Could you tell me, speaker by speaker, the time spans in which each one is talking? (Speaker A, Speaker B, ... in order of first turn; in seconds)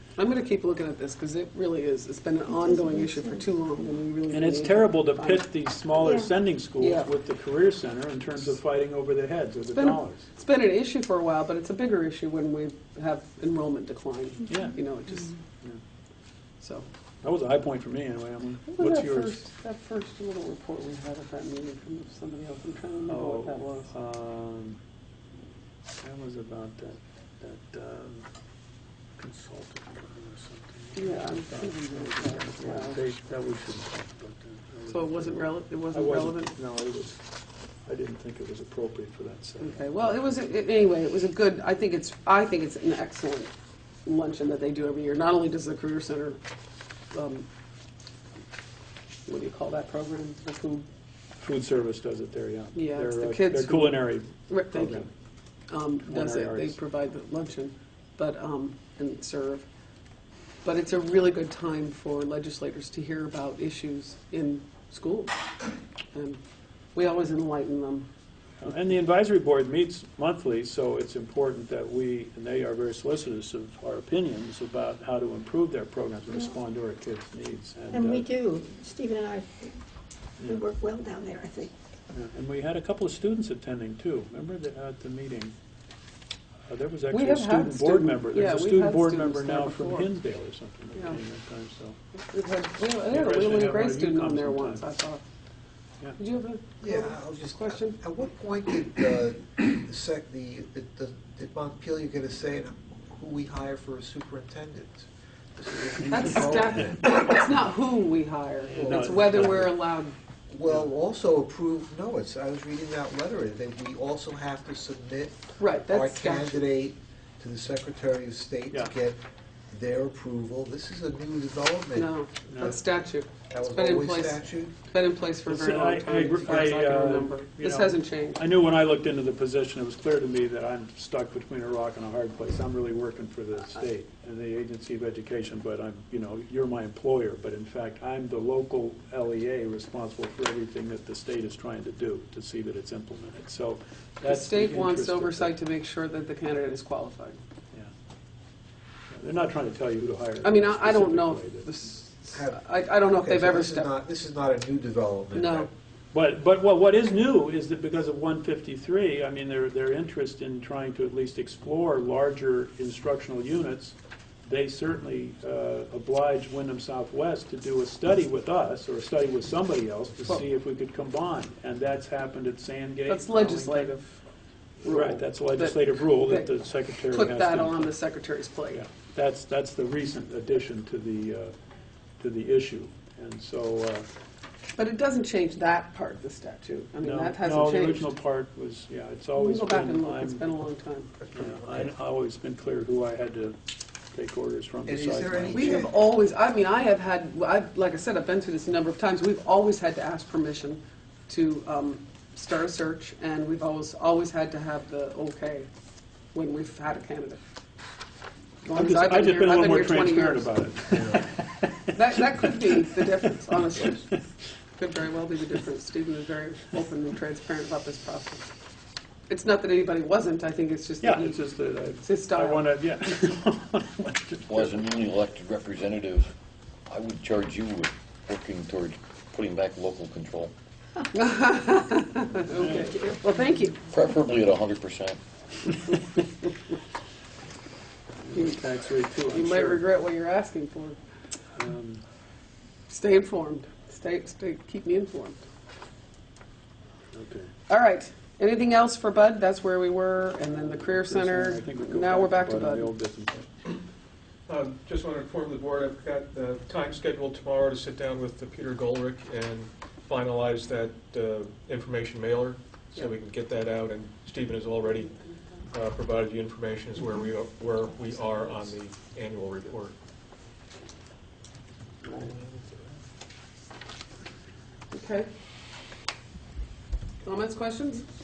Speaker A: 0.2-5.5, 6.8-7.1, 9.7-15.4, 16.6-16.9, 18.6-23.9, 30.9-33.0, 34.9-36.5, 39.6-43.5, 44.0-46.4, 47.1-47.5, 49.3-50.9, 52.7-55.1, 55.7-59.6, 60.6-65.3, 66.1-66.4, 67.0-68.1, 87.1-90.1, 92.2-95.2, 96.2-98.0, 106.1-110.1, 115.6-116.6, 121.9-128.4, 144.2-147.4, 150.4-153.9, 155.3-155.7, 173.1-174.2, 174.8-178.8, 184.8-188.1, 189.4-191.2, 195.5-205.7, 206.3-207.4, 208.6-210.6, 211.9-214.2, 214.8-218.5, 219.3-221.5, 222.0-222.8, 231.1-233.8, 239.3-241.0, 242.9-245.4, 247.7-252.9, 274.9-275.3, 277.2-278.0
Speaker B: 2.7-3.4, 6.0-6.3, 77.9-79.8, 80.4-81.7
Speaker C: 4.3-10.3, 14.5-14.8, 17.2-19.4, 23.1-24.8, 26.0-28.3, 29.1-37.2, 37.8-40.4, 51.4-55.1, 56.0-56.8, 68.6-78.3, 82.1-85.5, 86.7-92.0, 93.1-94.9, 108.7-109.8, 122.5-122.8, 125.5-145.5, 149.1-151.7, 156.1-173.9, 174.9-177.9, 178.7-181.6, 182.2-184.1, 187.0-190.6, 191.3-193.6, 194.1-195.8, 208.7-214.0, 221.0-224.8, 232.5-233.1, 238.2-239.8, 241.6-242.0, 247.1-247.5, 250.7-253.5, 268.4-268.7, 272.1-272.4
Speaker D: 96.8-107.1, 108.8-109.8, 110.5-119.2, 119.7-122.1, 123.5-124.8, 152.3-155.7, 191.2-191.9, 194.9-195.9, 210.9-211.2
Speaker E: 224.5-226.3, 226.9-230.5, 233.9-235.2
Speaker F: 254.5-265.1, 265.7-269.9